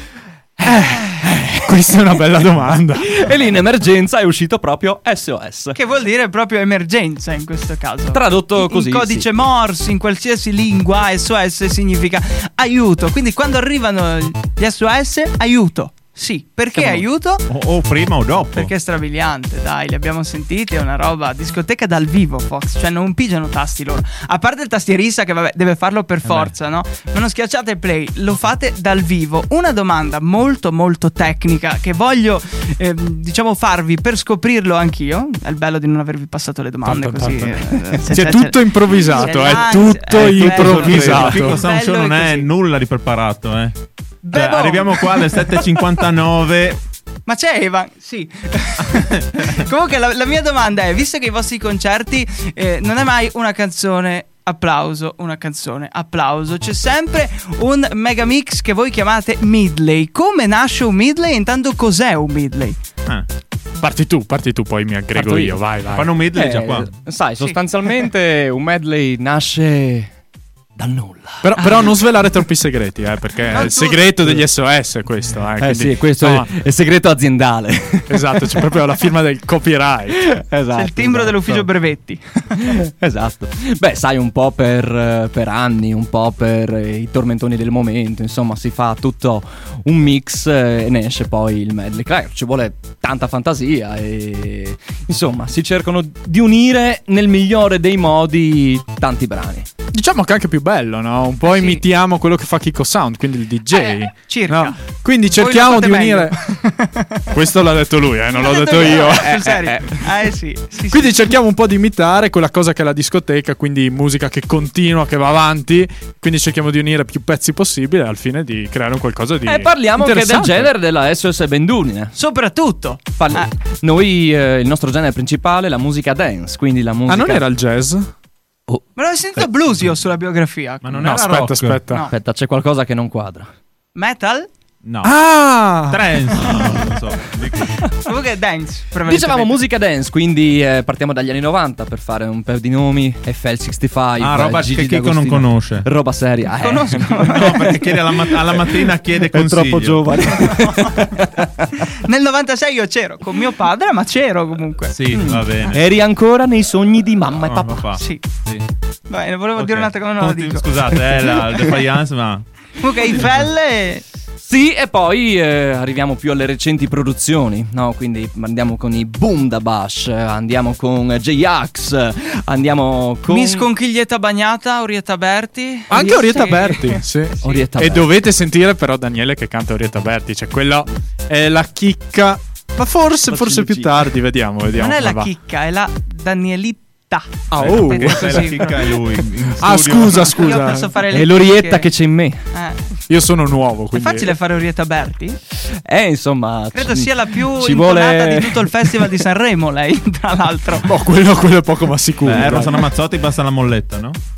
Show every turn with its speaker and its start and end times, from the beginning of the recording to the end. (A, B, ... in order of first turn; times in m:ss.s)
0:00.6-0:03.2 A
0:01.1-0:01.7 B
0:03.0-0:05.8 B
0:05.8-0:17.5 C
0:08.1-0:09.3 B
0:17.5-0:18.7 D
0:18.6-0:42.5 C
0:26.2-0:26.5 D
0:36.8-0:41.6 A
0:40.2-0:43.8 D
0:44.2-0:45.8 C
0:44.3-0:46.8 D
0:47.3-1:02.8 C
0:48.9-0:49.6 D
1:03.8-1:06.1 A
1:05.1-1:05.6 B
1:05.9-1:06.9 D
1:06.3-1:10.1 B
1:10.8-1:11.8 B
1:11.4-1:16.5 A
1:13.5-1:14.1 C
1:15.6-1:18.7 B
1:18.1-1:20.2 A
1:20.2-1:21.7 B
1:20.8-1:22.6 C
1:22.6-1:39.7 B
1:39.9-1:46.4 A
1:41.4-1:41.8 C
1:43.7-1:47.3 C
1:47.3-1:50.0 A
1:48.3-1:51.2 C
1:50.9-2:00.7 A
1:59.4-2:02.2 B
2:02.2-2:03.5 C
2:03.2-2:07.4 B
2:07.1-2:08.1 A
2:09.0-2:11.2 C
2:10.8-2:11.8 D
2:11.0-2:12.1 A
2:11.9-2:12.1 C
2:12.1-2:13.5 B
2:14.0-2:14.5 C
2:14.8-2:15.2 D
2:15.0-2:16.0 A
2:15.9-2:17.9 D
2:17.9-2:19.6 C
2:19.1-2:31.7 B
2:24.2-2:25.9 D
2:26.6-2:27.8 C
2:27.2-2:30.5 D
2:30.5-2:31.1 C
2:31.9-2:35.4 C
2:34.9-2:35.8 D
2:35.2-2:37.9 B
2:37.4-2:38.7 D
2:38.0-2:38.2 C
2:39.1-2:41.0 C
2:39.6-2:42.5 D
2:42.8-2:44.0 C
2:43.1-2:43.3 D
2:44.4-2:53.7 B
2:53.3-2:57.5 C
2:55.9-3:05.3 A
2:57.4-2:58.1 B
3:03.3-3:04.0 B
3:04.8-3:08.9 C
3:07.5-3:08.6 A
3:07.6-3:10.4 D
3:09.6-3:10.9 A
3:10.2-3:11.9 C
3:11.1-3:12.4 B
3:12.5-3:12.9 C
3:13.1-3:14.3 A
3:13.9-3:15.4 C
3:15.9-3:19.1 B
3:16.7-3:20.9 C
3:20.9-3:22.9 A
3:22.2-3:24.2 D